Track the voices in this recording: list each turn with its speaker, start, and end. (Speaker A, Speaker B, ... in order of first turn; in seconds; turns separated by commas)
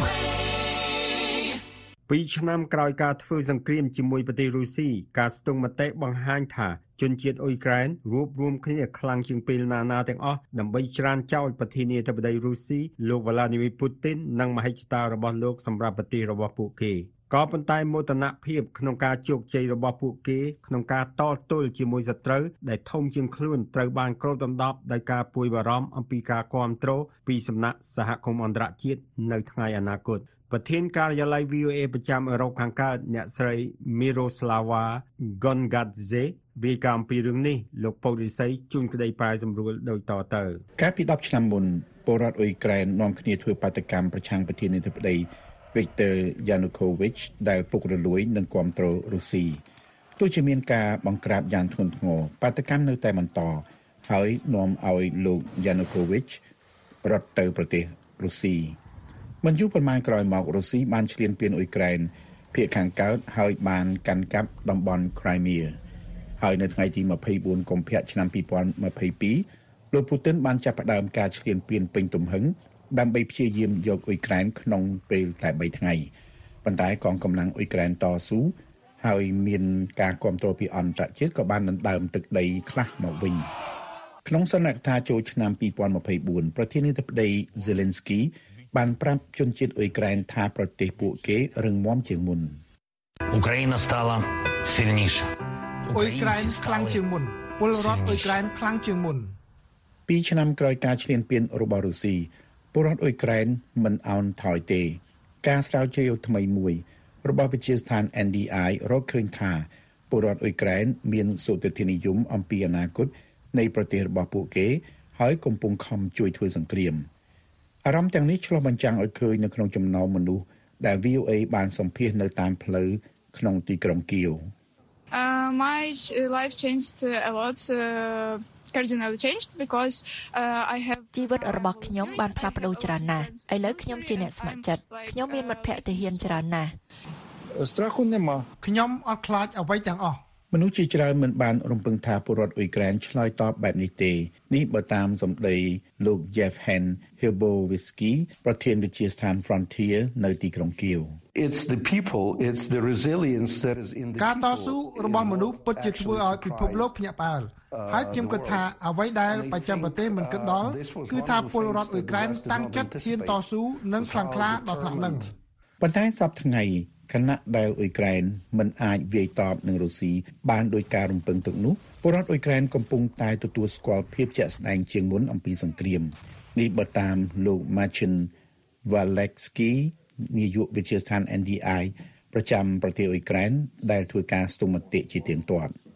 Speaker A: 2.1-40.6, Speaker B: 40.8-49.6, Speaker B: 50.2-56.4, Speaker B: 57.0-58.8, Speaker B: 59.4-65.8, Speaker B: 66.4-76.1, Speaker B: 76.6-83.5, Speaker B: 84.2-92.6, Speaker C: 93.3-95.3, Speaker C: 95.8-97.0, Speaker D: 95.9-99.3, Speaker C: 97.7-98.4, Speaker B: 100.1-117.1, Speaker B: 117.8-124.5, Speaker E: 125.1-136.4, Speaker F: 131.1-136.8, Speaker D: 138.6-140.2, Speaker B: 140.5-151.2, Speaker G: 151.3-156.9, Speaker D: 154.2-165.3, Speaker G: 157.7-158.7, Speaker G: 159.3-165.3, Speaker B: 165.8-178.3, Speaker B: 178.8-185.7